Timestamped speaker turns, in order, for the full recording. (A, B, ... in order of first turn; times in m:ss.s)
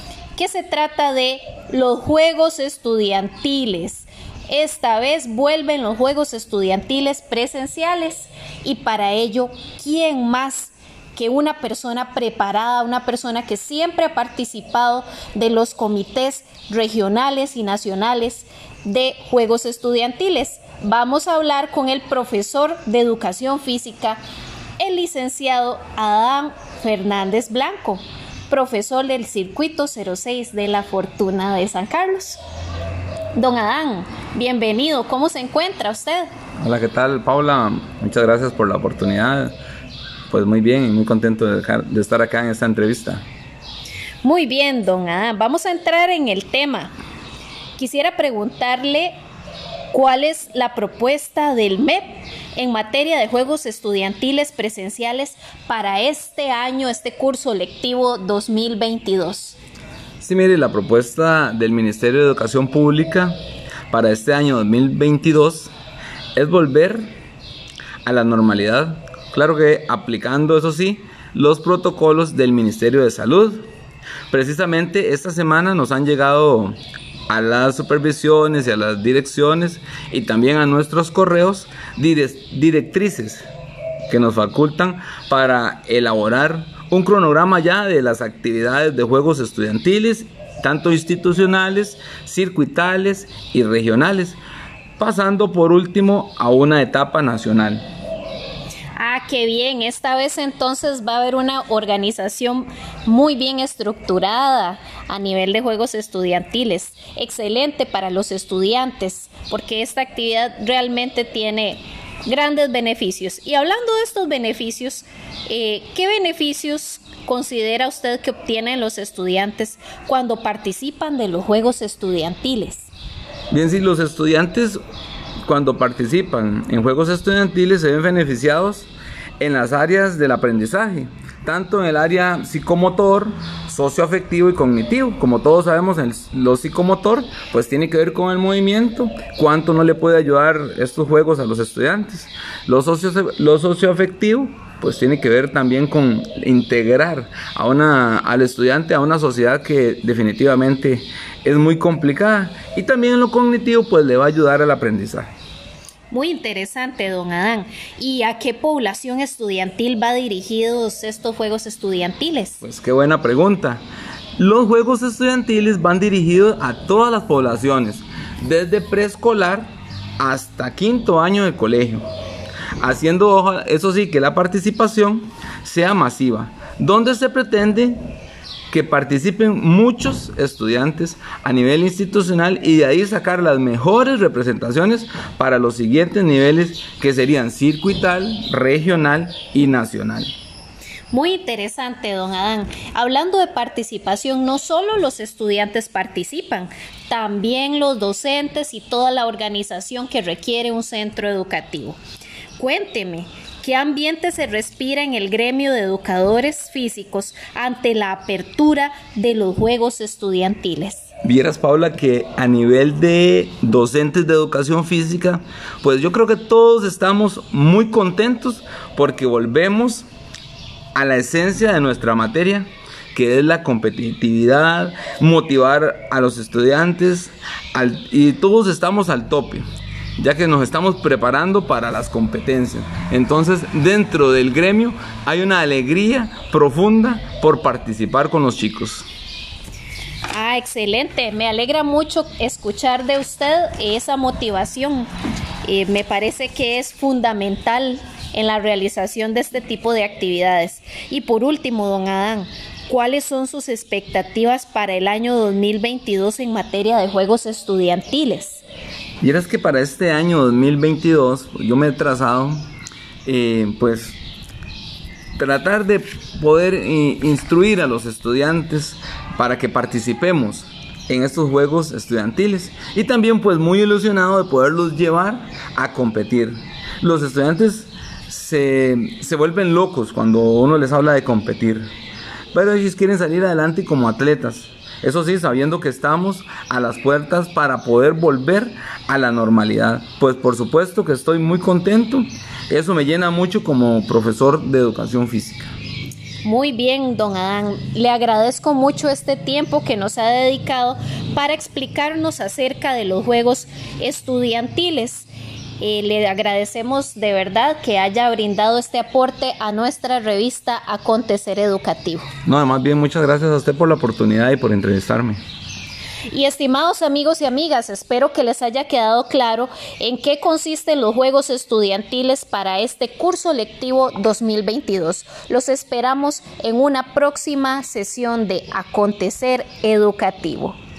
0:00.4-0:24.2 A
0:24.8-0:32.4 A
0:33.4-0:36.3 A
0:36.6-0:39.5 B
0:40.3-0:43.2 B
0:44.2-0:46.9 A
0:47.8-0:49.1 A
0:49.9-0:59.6 A
1:00.2-1:03.4 B
1:03.9-1:05.7 B
1:06.4-1:07.1 B
1:08.0-1:13.7 B
1:14.3-1:16.8 B
1:17.3-1:23.4 B
1:24.1-1:34.4 B
1:35.0-1:37.8 B
1:39.0-2:02.9 A
2:03.5-2:04.8 B
2:05.4-2:35.3 B
2:36.1-2:42.6 A
2:42.6-2:43.8 B
2:44.4-2:52.0 B
2:52.8-2:58.0 B
2:58.7-3:10.3 B
3:11.1-3:22.0 A
3:22.6-3:31.1 A
3:31.2-3:40.0 B
3:40.9-3:49.6 B
3:50.2-3:59.1 B
4:00.3-4:05.1 A
4:05.6-4:18.6 A
4:19.2-4:22.6 B
4:23.2-4:24.2 B
4:25.4-4:41.8 B
4:42.5-4:55.7 B
4:56.4-5:05.3 A
5:05.8-5:12.3 A
5:12.4-5:15.4 B
5:16.3-5:30.8 A